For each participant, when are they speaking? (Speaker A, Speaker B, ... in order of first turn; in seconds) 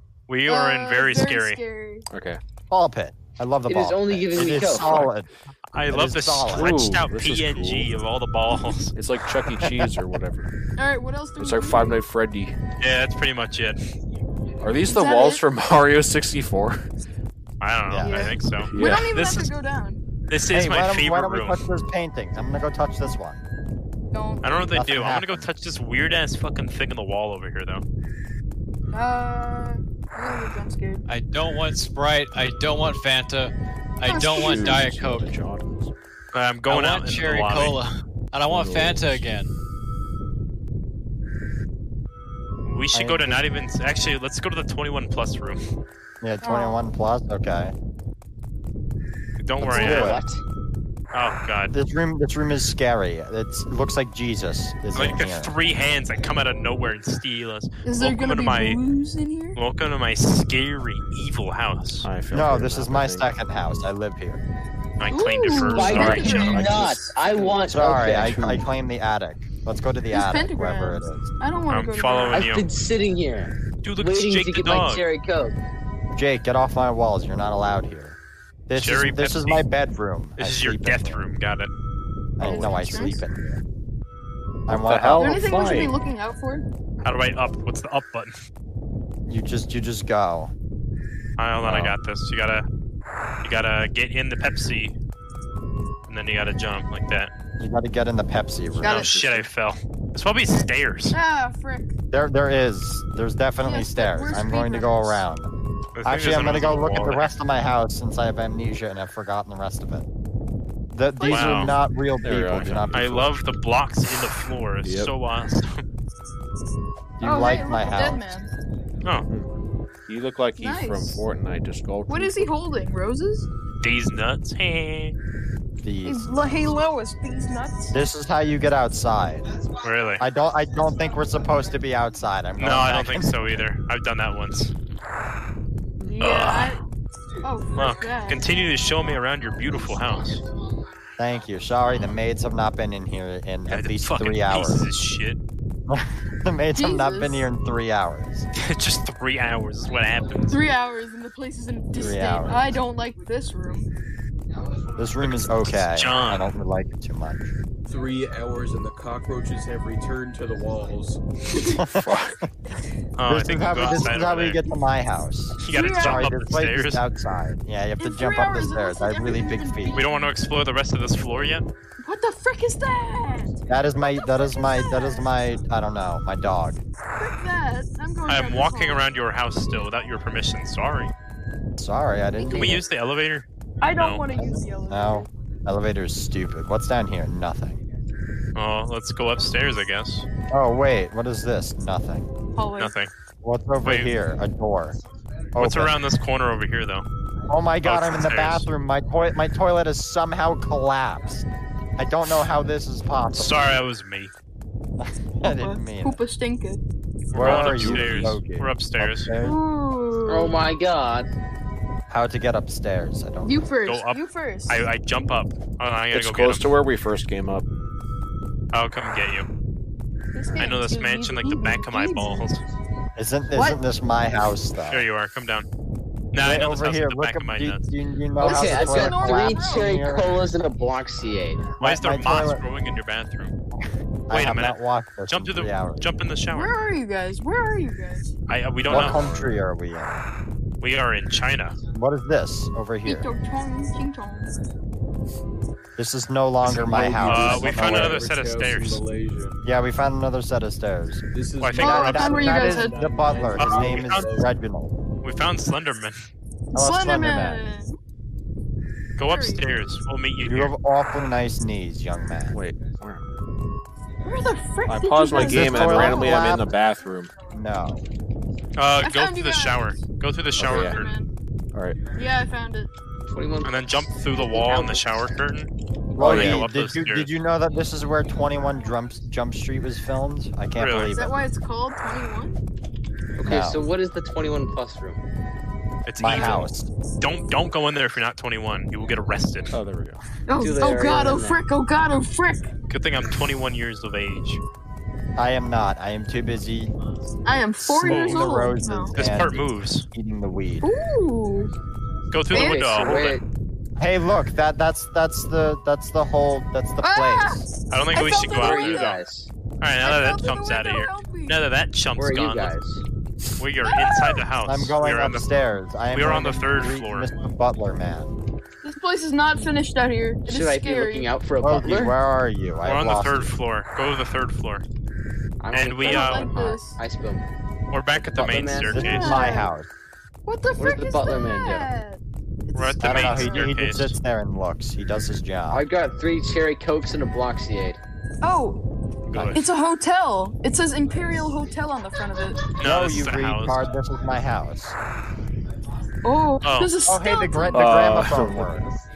Speaker A: 0.3-1.6, 5.7-8.9, 12.8-13.8, 17.6-19.5, 20.3-21.6, 24.4-27.8, 36.3-37.8, 42.6-45.6, 49.4-50.2, 51.1-51.7, 54.9-58.8, 59.5-62.1, 65.0-66.7, 71.7-72.7, 73.8-75.0, 78.7-79.6, 80.4-81.7, 87.0-88.3, 91.4-92.7, 93.4-95.0, 96.1-97.3, 98.8-101.2, 106.0-107.3, 111.3-111.7, 112.9-115.8, 123.8-125.2, 129.8-130.2, 132.6-134.7, 136.2-136.8, 137.8-140.4, 143.7-145.4, 148.5-150.6, 155.2-156.4, 163.2-164.6, 165.6-167.0, 169.9-171.7, 178.3-181.1, 182.5-184.3, 188.5-190.2, 192.8-193.1, 193.8-194.1, 195.6-197.1, 197.8-198.7, 203.3-204.3, 207.3-209.3, 213.8-216.7, 218.7-219.5, 220.6-222.6, 224.9-225.7, 226.3-227.8, 231.8-233.5, 234.3-234.8, 235.3-236.7, 238.5-239.2, 240.8-241.8, 246.7-249.0, 251.6-252.4, 253.6-254.3, 255.2-256.2, 259.2-260.7, 268.8-271.1, 273.6-277.3, 280.8-281.1, 286.1-289.7, 292.9-294.6, 298.0-298.5, 299.1-300.1, 302.3-303.4, 307.9-309.2, 309.8-312.7, 313.6-315.4, 316.1-317.3, 322.8-324.8, 325.7-326.5, 327.9-329.4, 332.7-334.1, 339.3-339.6, 342.8-343.8, 346.6-347.0
Speaker B: 0.5-2.0, 10.8-12.0, 14.8-15.4, 18.0-20.0, 24.1-24.7, 28.9-31.0, 34.0-34.8, 46.4-46.9, 57.8-59.6, 65.1-66.7, 70.1-72.5, 82.4-83.2, 85.2-86.7, 98.8-99.1, 100.5-101.9, 103.6-105.2, 111.2-111.7, 117.2-118.5, 120.5-121.2, 122.1-123.5, 126.0-128.0, 136.1-136.8, 137.4-138.4, 146.8-147.4, 150.5-153.9, 163.8-164.1, 165.7-166.3, 168.0-170.3, 172.0-175.6, 177.2-179.0, 183.8-185.3, 192.6-192.9, 205.4-206.8, 209.4-210.6, 213.4-214.9, 220.3-222.5, 223.5-223.8, 228.4-230.0, 236.5-238.3, 243.0-244.5, 251.8-253.0, 256.7-258.0, 259.2-259.6, 264.2-266.6, 269.0-269.9, 270.5-271.3, 272.1-272.9, 281.1-282.6, 286.2-286.6, 290.5-292.6, 297.4-299.1, 300.8-301.7, 302.5-303.2, 307.0-309.2, 310.0-311.6, 313.8-314.5, 318.8-321.3, 326.0-327.0, 329.0-329.7, 330.4-333.7, 338.4-338.8, 339.5-342.8, 346.2-348.0
Speaker C: 2.1-2.4, 6.5-7.9, 8.9-10.5, 11.4-12.6, 14.6-16.9, 18.7-19.1, 34.3-35.9, 38.4-39.3, 62.0-63.3, 65.8-68.6, 82.4-83.1, 84.7-86.0, 98.8-99.5, 112.2-113.3, 114.8-115.1, 120.1-122.5, 136.0-136.3, 161.9-162.4, 207.4-208.2, 216.1-217.7, 238.9-239.6, 262.5-263.4, 264.9-267.3, 270.6-271.0, 271.7-272.0, 276.2-276.6, 289.7-290.2, 347.7-348.9
Speaker D: 2.7-5.3, 5.9-6.8, 17.9-18.3, 20.5-23.4, 24.7-25.5, 42.9-43.4, 46.2-47.7, 49.6-50.2, 51.7-55.5, 62.3-64.4, 67.7-71.3, 76.1-81.2, 82.4-83.6, 84.7-85.4, 89.3-90.5, 97.6-99.1, 102.1-105.5, 106.0-110.1, 110.9-113.3, 117.2-118.3, 125.8-126.7, 127.9-129.5, 130.2-133.6, 141.2-144.8, 145.9-148.5, 151.9-152.8, 155.0-157.5, 161.7-162.4, 163.3-170.0, 173.7-176.8, 181.8-182.8, 184.4-187.8, 190.5-192.3, 193.4-195.0, 195.6-195.9, 197.5-201.5, 202.0-203.8, 205.0-206.2, 207.3-209.6, 212.1-213.6, 223.2-225.1, 226.4-230.3, 231.8-232.6, 234.3-236.1, 238.9-240.3, 241.9-243.3, 246.0-248.2, 249.6-251.2, 251.8-254.9, 256.7-257.6, 260.4-262.6, 265.3-266.7, 267.5-268.0, 276.1-281.4, 283.4-283.8, 286.2-286.9, 295.4-296.9, 297.8-300.9, 304.0-307.6, 314.6-318.3, 321.6-323.5, 328.9-329.9, 333.0-335.8, 342.8-344.9, 347.1-348.9
Speaker E: 3.7-5.1, 49.6-50.4, 65.6-68.4, 72.3-75.5, 182.4-182.8, 210.3-211.3, 228.4-231.7, 273.3-275.3, 283.4-285.2, 290.6-291.6, 302.5-303.4, 308.4-309.5, 312.2-313.0, 320.4-322.1, 325.6-327.4, 328.1-329.1, 330.8-331.9, 335.7-338.0
Speaker F: 31.1-35.3, 36.7-39.5
Speaker G: 157.8-161.2, 246.6-249.6, 251.3-254.5